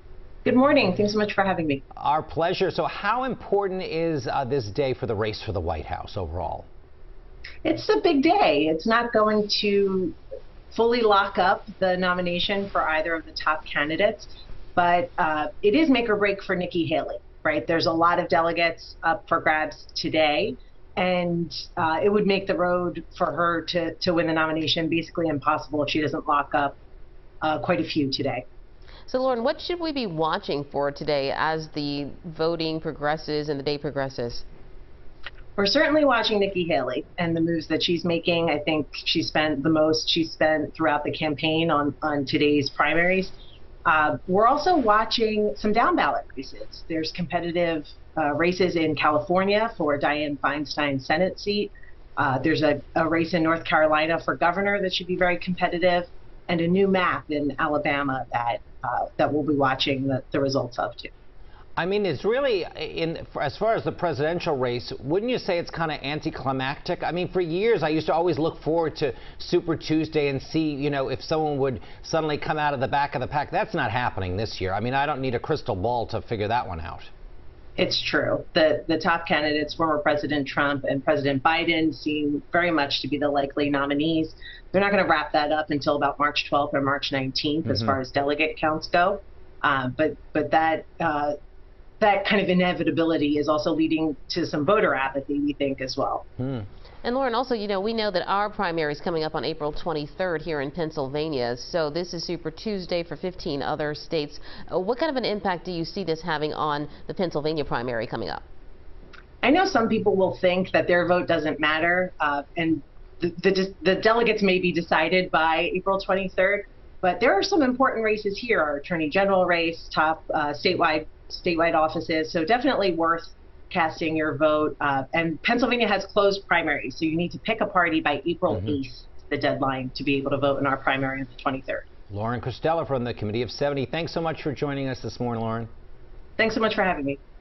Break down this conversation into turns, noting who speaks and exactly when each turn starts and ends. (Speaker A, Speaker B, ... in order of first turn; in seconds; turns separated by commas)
Speaker A: 0.5-1.8, Speaker B: 2.0-6.7, Speaker A: 7.6-10.2, Speaker A: 10.7-26.8, Speaker A: 27.4-28.4, Speaker C: 29.1-34.5, Speaker A: 35.6-43.3, Speaker A: 43.9-61.1, Speaker B: 61.8-77.1, Speaker A: 77.8-91.3, Speaker B: 87.7-87.9, Speaker A: 92.0-96.2, Speaker B: 96.4-96.7, Speaker C: 97.0-108.4, Speaker A: 109.4-131.8, Speaker B: 128.5-128.8, Speaker B: 132.1-135.7, Speaker A: 136.4-137.2